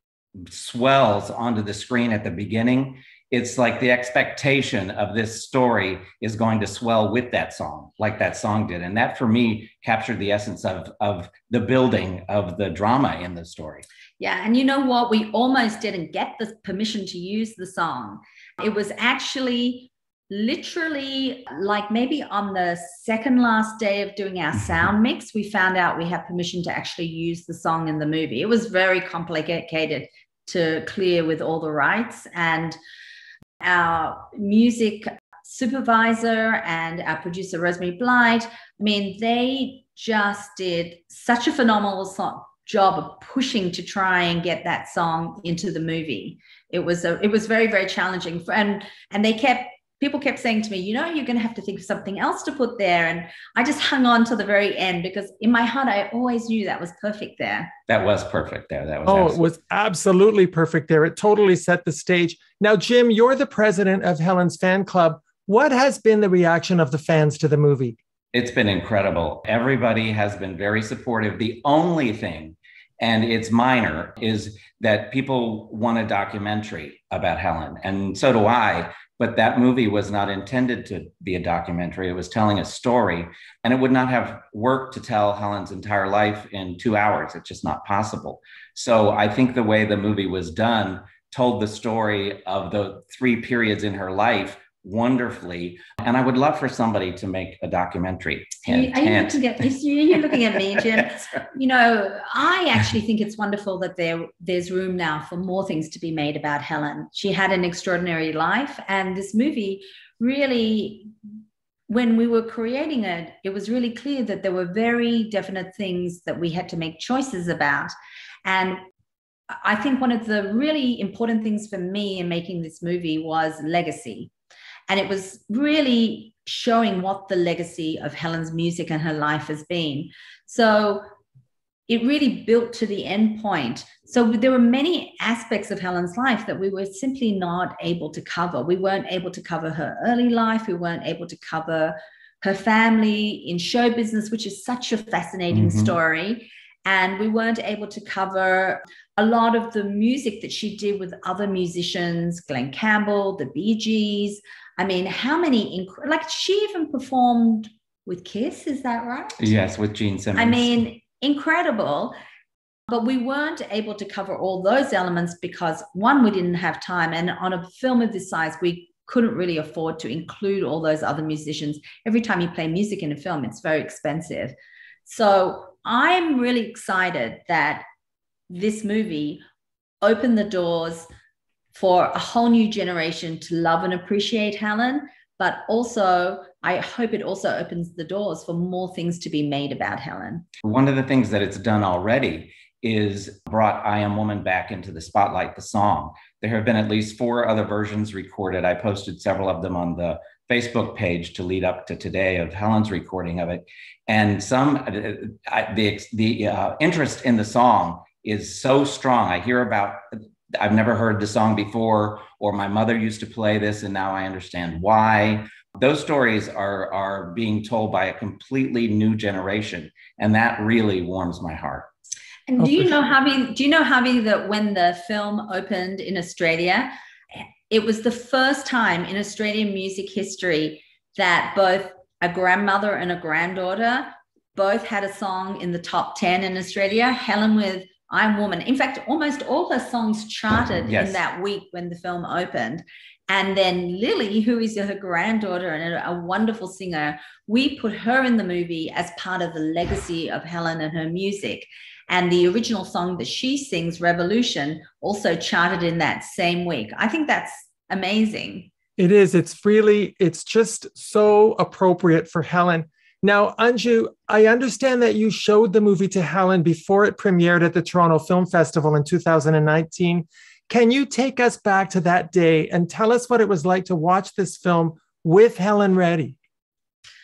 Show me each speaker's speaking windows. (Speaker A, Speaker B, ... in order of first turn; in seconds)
Speaker A: 0.4-13.8, 57.9-59.4, 68.3-99.4, 145.5-145.9, 159.4-160.8, 190.6-221.9, 240.9-241.2
Speaker B: 14.2-32.8, 33.6-57.7, 98.7-111.1, 111.9-117.9, 118.4-118.8, 119.6-124.3, 124.9-131.1, 131.9-159.5, 160.3-162.1, 162.9-174.5, 175.1-177.8, 178.5-179.4, 180.0-181.1, 181.7-190.4, 222.5-226.9, 227.7-258.7
Speaker C: 59.0-68.0, 259.0-276.4